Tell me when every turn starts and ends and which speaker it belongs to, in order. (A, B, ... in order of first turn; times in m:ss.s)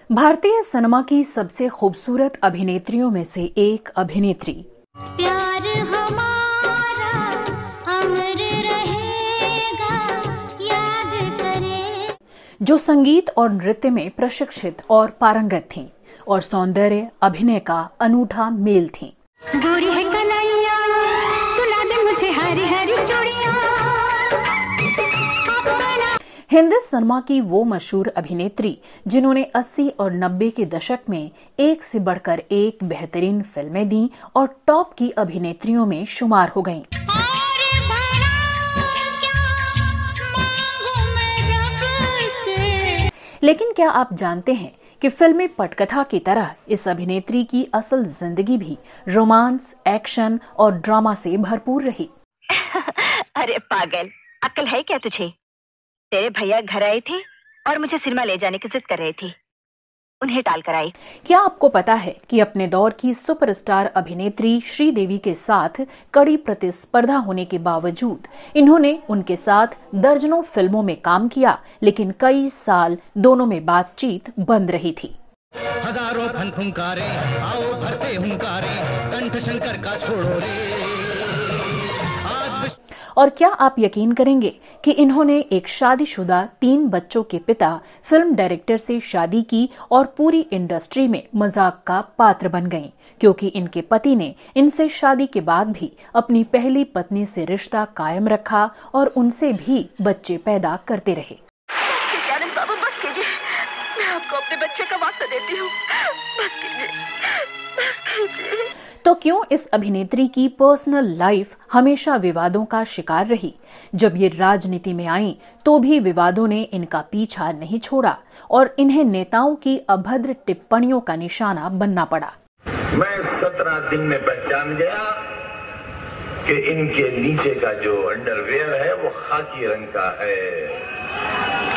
0:00.1-0:04.7 A
0:05.2-0:12.1 B
0:12.6-0:19.1 A
0:19.5-0:24.5 B
0:25.3-0:26.1 B
0:26.5-0:36.9 A
0:37.1-0:43.1 B
0:43.4-0:52.1 A
0:52.5-0:55.3 C
0:56.1-0:59.3 C
1:00.2-1:00.9 C
1:01.2-1:15.2 A
1:15.8-1:20.7 D
1:22.3-1:22.7 D
1:23.2-1:41.4 A
1:41.9-1:48.7 C
1:49.0-2:02.3 A
2:02.9-2:05.2 E
2:06.4-2:10.9 E